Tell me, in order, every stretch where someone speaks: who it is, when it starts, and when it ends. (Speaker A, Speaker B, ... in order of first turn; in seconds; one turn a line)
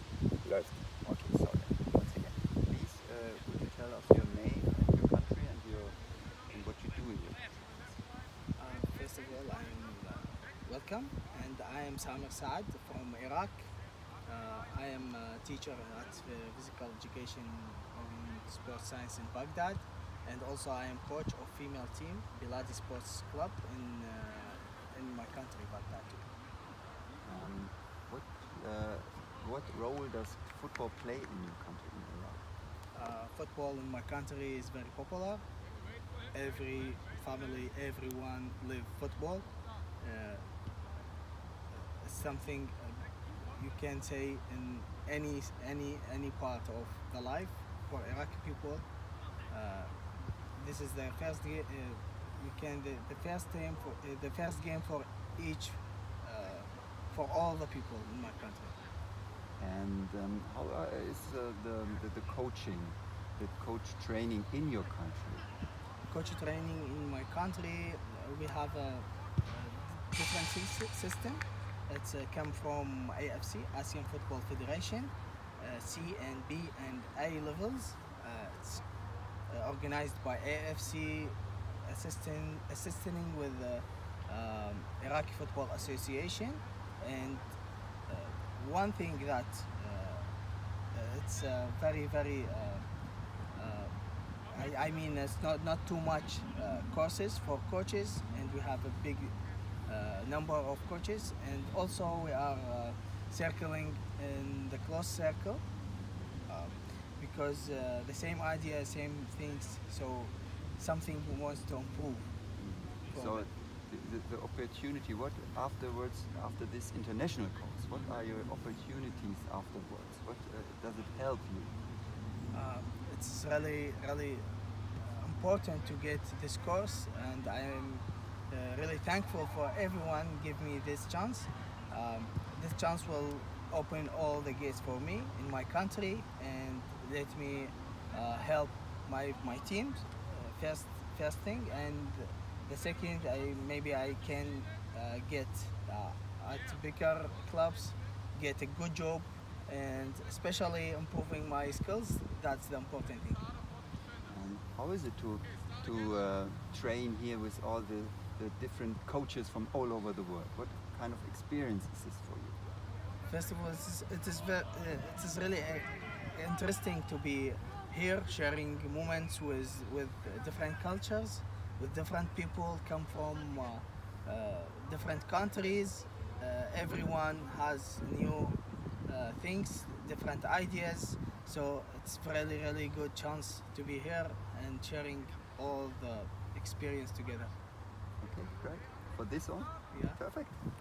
Speaker A: 0.4-7.8
Speaker B: 8.6-13.7
Speaker B: 14.2-26.3
Speaker A: 27.2-32.5
Speaker B: 32.9-35.5
Speaker B: 36.3-40.5
Speaker B: 41.7-48.9
Speaker B: 49.5-49.9
Speaker B: 50.5-58.8
Speaker A: 59.6-65.5
Speaker B: 66.1-78.8
Speaker B: 79.5-87.5
Speaker B: 88.1-90.3
Speaker B: 90.9-92.9
Speaker B: 93.5-93.9
Speaker B: 94.5-105.6
Speaker B: 106.5-112.3
Speaker A: 112.6-121.7
Speaker B: 113.1-113.5
Speaker B: 122.5-153.5
Speaker A: 154.2-162.6
Speaker B: 163.2-187.5
Speaker A: 188.2-190.6
Speaker B: 189.9-190.2